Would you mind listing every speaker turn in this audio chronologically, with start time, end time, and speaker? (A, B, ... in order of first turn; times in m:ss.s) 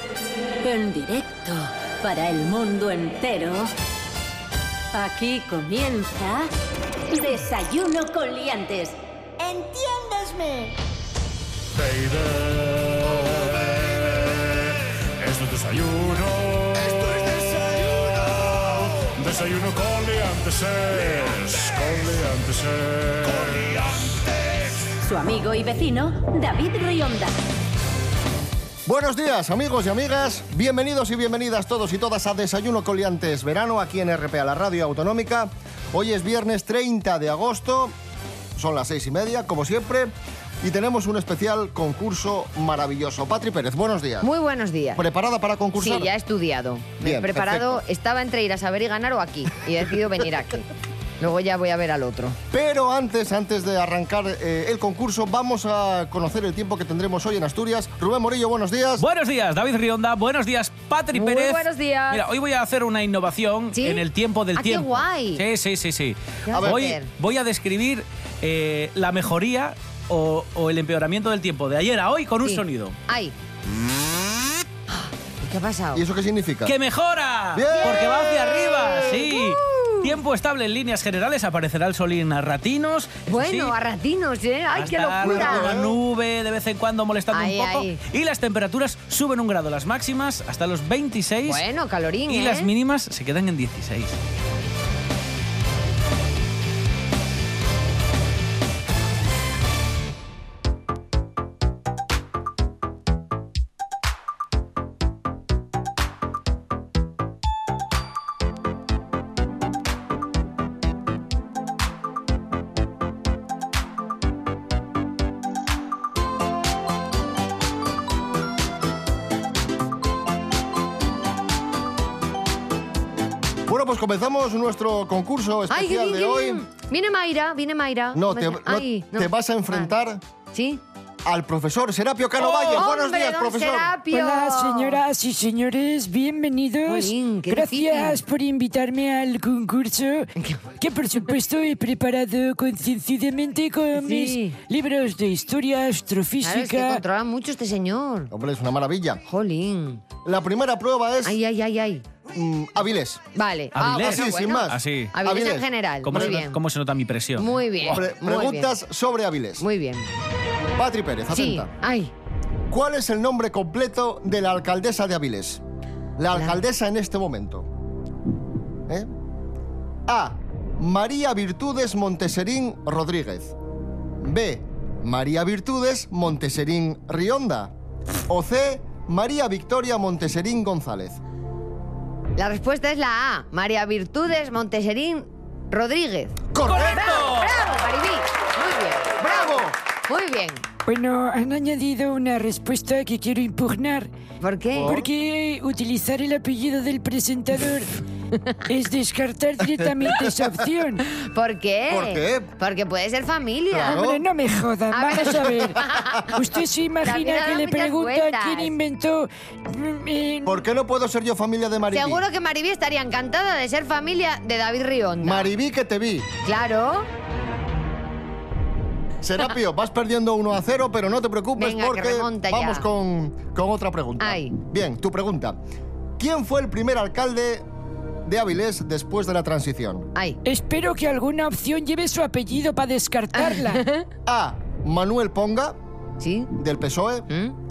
0:00.6-0:03.7 A
0:04.9-0:06.5 A
0:07.1-0:10.7 A
0:11.8-0:24.4 B
0:25.0-0:27.3 A
0:28.9-0:38.0 C
0:38.6-0:44.3 C
0:44.2-0:45.0 D
0:45.0-0:46.1 C
0:45.8-0:50.7 D
0:47.0-0:47.8 C
0:51.2-0:52.4 D
0:52.5-0:59.1 C
0:59.0-1:13.0 E
1:01.1-1:02.3 D
1:03.8-1:05.4 D
1:06.5-1:07.1 D
1:06.5-1:06.9 C
1:12.4-1:13.4 D
1:14.9-1:16.0 D
1:15.9-1:16.8 C
1:16.7-1:23.7 E
1:17.5-1:18.1 C
1:17.7-1:20.2 D
1:23.3-1:25.7 D
1:24.7-1:31.6 E
1:25.2-1:26.0 C
1:27.3-1:28.0 D
1:31.4-1:32.7 D
1:32.3-1:34.2 E
2:03.7-2:06.6 C
2:05.7-2:09.9 D
2:08.1-2:10.2 C
2:10.5-2:10.8 D
2:11.2-2:13.9 C
2:12.4-2:15.0 D
2:14.1-2:27.0 F
2:16.9-2:18.2 D
2:24.0-2:24.6 D
2:26.4-2:28.3 D
2:28.3-2:29.2 C
2:29.3-2:30.0 D
2:30.2-2:31.4 C
2:31.2-2:32.0 D
2:32.4-2:33.2 C
2:33.4-2:36.6 D
2:33.8-2:35.1 E
2:33.8-2:36.4 C
2:36.0-2:37.5 E
2:37.4-2:38.7 D
2:37.8-2:39.6 C
2:39.6-2:40.1 D
2:40.8-2:41.7 C
2:41.3-2:42.1 D
2:42.7-2:45.6 C
2:46.2-2:47.7 C
2:50.1-2:53.6 C
2:54.2-2:57.7 C
2:58.3-3:01.2 C
3:02.4-3:10.6 D
3:06.5-3:07.3 C
3:06.6-3:07.6 E
3:09.2-3:09.8 C
3:10.9-3:14.1 F
3:14.4-3:14.9 D
3:14.7-3:15.1 C
3:14.8-3:17.9 F
3:18.7-3:21.0 F
3:19.8-3:20.7 C
3:21.1-3:24.0 D
3:21.9-3:22.5 C
3:23.7-3:24.2 C
3:23.8-3:30.6 F
3:24.9-3:26.4 D
3:27.0-3:28.7 D
3:30.5-3:32.2 C
3:31.9-3:35.5 D
3:35.2-3:36.3 C
3:36.4-3:37.1 D
3:39.2-3:45.6 C
3:41.6-3:42.8 D
3:44.2-3:44.6 D
3:46.2-3:47.7 C
3:48.3-3:50.1 C
3:50.4-3:53.8 F
3:53.4-3:54.1 D
3:54.3-3:55.8 C
3:56.2-3:56.5 D
3:56.5-3:57.3 C
3:57.3-3:57.6 D